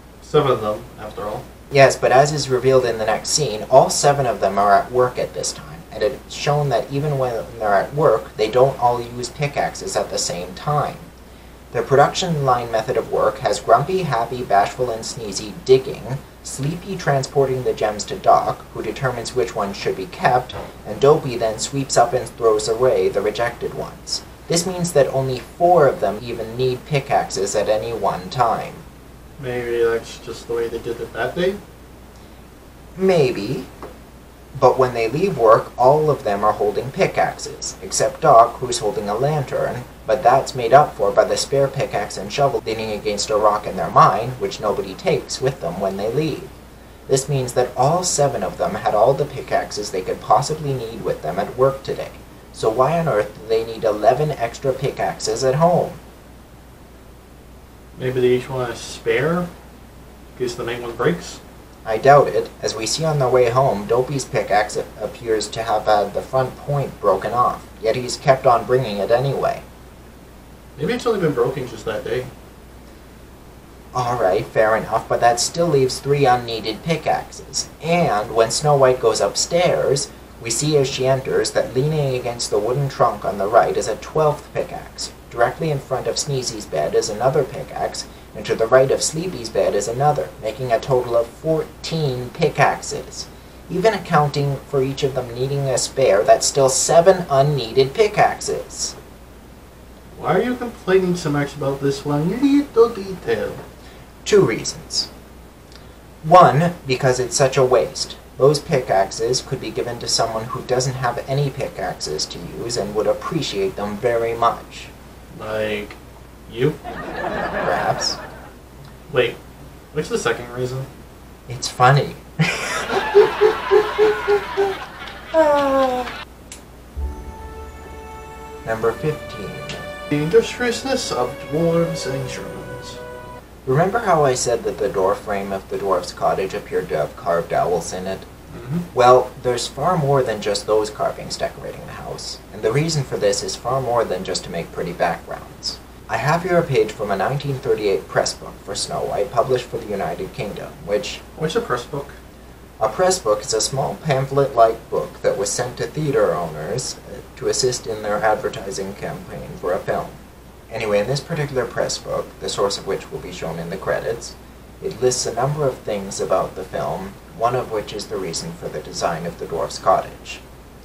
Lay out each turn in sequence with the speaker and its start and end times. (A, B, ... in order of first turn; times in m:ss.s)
0:00.2-0:01.4 A
0:01.7-0:11.1 B
0:11.7-0:28.8 B
0:29.4-0:31.6 A
0:33.0-0:33.7 B
0:34.5-0:46.5 B
0:47.1-0:56.0 B
0:58.0-0:59.5 A
1:00.4-1:01.4 A
1:01.8-1:09.6 B
1:10.8-1:12.3 A
1:13.9-1:39.0 B
1:40.2-1:43.6 A
1:44.2-1:45.1 B
1:46.2-1:54.9 B
1:55.3-1:56.8 A
1:57.3-1:58.2 B
1:59.1-1:59.4 A
1:59.9-2:00.9 A
2:01.5-2:04.4 B
2:05.3-2:06.2 B
2:08.6-2:09.9 B
2:10.1-2:13.0 A
2:13.6-2:18.3 B
2:18.5-2:18.9 A
2:18.9-2:31.2 B
2:31.4-2:32.2 A
2:32.8-2:50.4 B